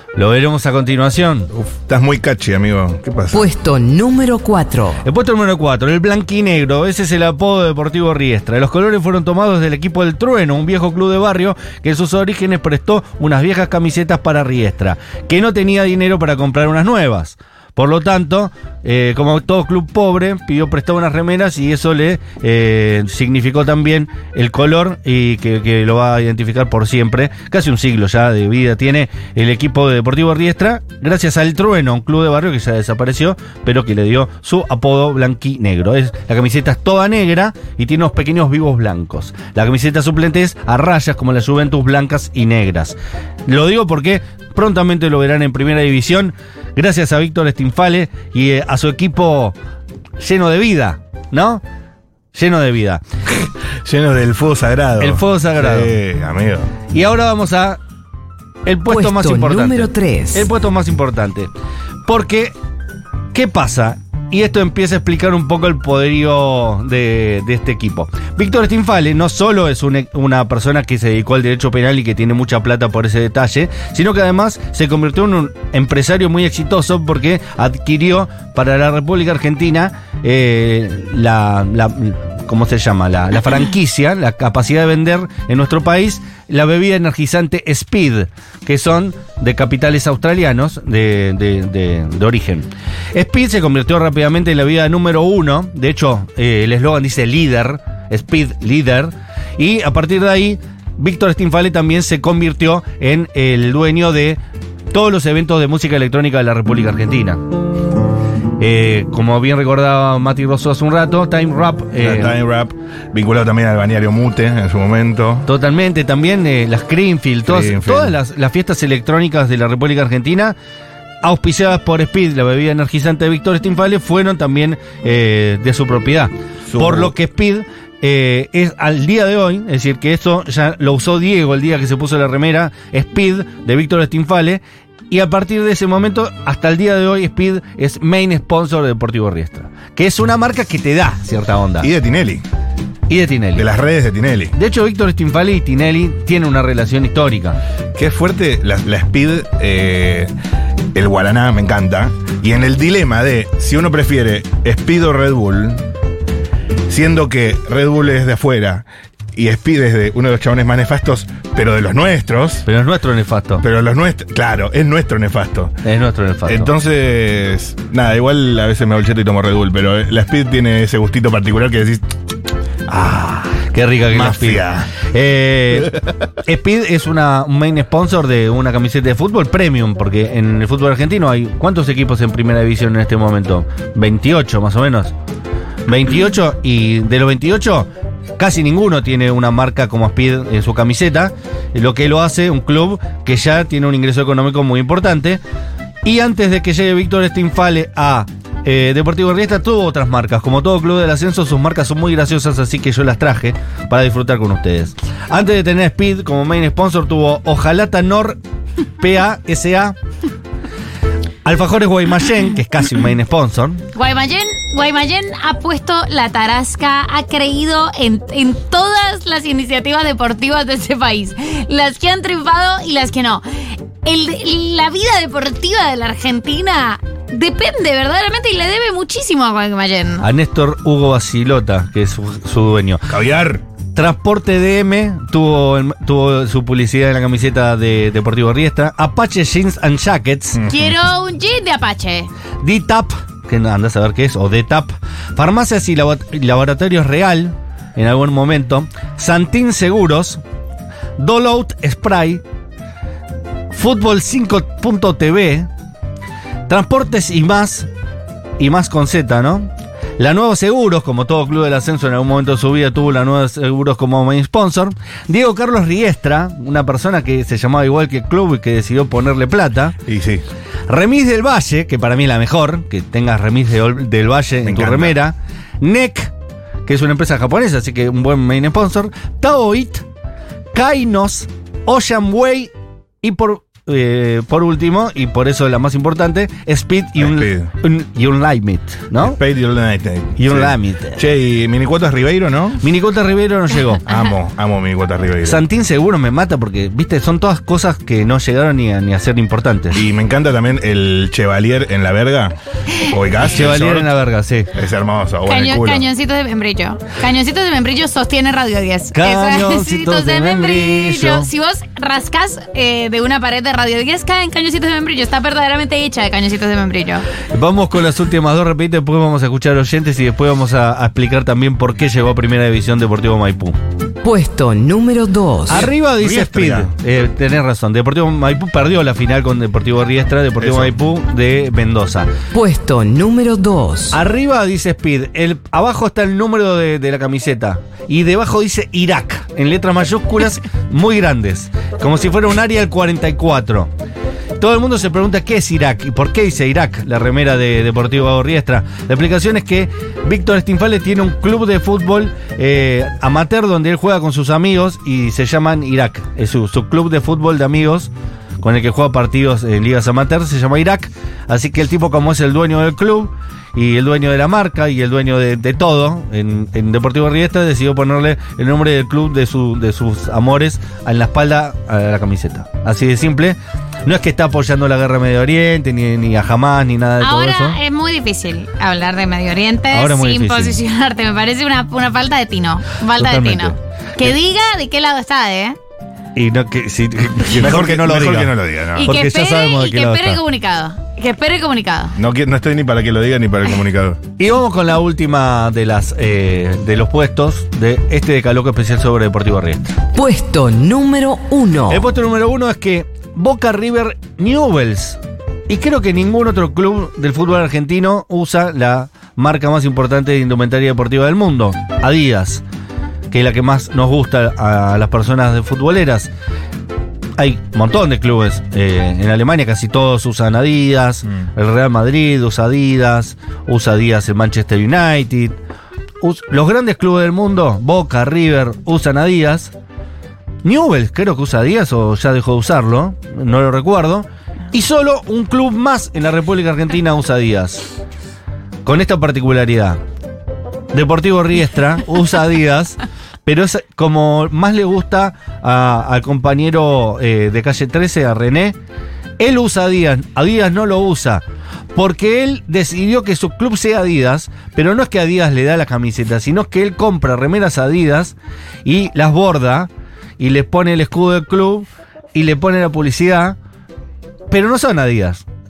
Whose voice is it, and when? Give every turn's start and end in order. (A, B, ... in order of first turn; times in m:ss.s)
0:00.1-0:01.5 A
0:01.5-0:03.4 B
0:03.3-0:05.0 C
0:05.0-0:49.6 A
0:50.2-0:51.6 A
0:52.3-0:53.0 A
0:53.4-0:56.7 B
0:55.0-0:55.9 A
0:56.9-0:57.8 A
0:58.6-1:01.5 A
0:58.9-1:00.5 C
1:02.0-1:02.5 A
1:03.3-1:44.4 A
1:44.9-1:47.4 A
1:48.6-1:52.4 A
1:52.0-1:55.5 B
1:55.4-2:00.6 A
1:57.4-1:58.2 B
2:01.2-2:21.9 A
2:06.7-2:07.1 B
2:21.8-2:22.4 B
2:23.1-2:23.7 A
2:23.5-2:24.5 B
2:24.5-2:27.6 A
2:27.9-2:30.3 B
2:30.9-2:35.8 B
2:36.9-2:42.6 B
2:42.6-2:43.6 A
2:43.6-2:45.8 B
2:45.8-2:46.7 A
2:46.4-2:52.1 B
2:52.9-3:05.1 A
2:54.1-2:54.9 B
3:05.9-3:15.4 A
3:16.0-3:28.4 A
3:29.0-3:30.0 A
3:31.4-3:33.8 A
3:33.9-3:50.3 D
3:50.2-3:53.1 A
3:53.1-3:53.6 B
3:53.9-4:00.6 A
4:00.5-4:01.0 B
4:00.7-4:02.3 D
4:02.6-4:10.4 A
4:11.2-4:12.4 A
4:13.7-4:15.7 A
4:16.7-4:17.9 A
4:18.6-4:30.0 A
4:30.0-4:30.4 B
4:30.9-4:36.3 A
4:34.6-4:35.2 B
4:36.9-4:40.0 A
4:40.7-4:42.7 A
4:43.2-4:49.4 A
4:47.2-4:47.7 B
4:49.2-4:52.8 B
4:50.4-4:51.2 A
4:52.8-4:54.0 A
4:54.0-4:55.6 B
4:55.4-5:00.0 A
4:59.9-5:04.1 B
5:03.5-5:04.7 A
5:04.7-5:06.0 B
5:05.5-5:17.3 D
5:09.1-5:11.5 A
5:17.5-5:23.8 A
5:24.2-5:25.9 C
5:25.7-5:32.3 A
5:25.7-5:26.9 B
5:30.6-5:30.9 B
5:32.5-5:34.2 C
5:34.1-5:43.9 A
5:44.6-6:17.8 A
6:17.2-6:25.8 D
6:19.9-6:20.8 A
6:23.2-6:23.8 A
6:26.3-6:30.4 A
6:27.5-6:29.1 B
6:29.0-6:32.2 D
6:32.2-6:34.2 B
6:34.4-6:40.0 A
6:40.1-6:42.0 C
6:41.9-6:52.6 A
6:53.3-6:56.3 A
6:57.4-7:05.5 A
7:06.2-7:09.7 A
7:10.6-7:17.9 A
7:18.8-7:20.0 A
7:20.9-7:28.8 A
7:29.4-7:31.4 A
7:31.9-7:43.6 A
7:44.5-7:45.4 A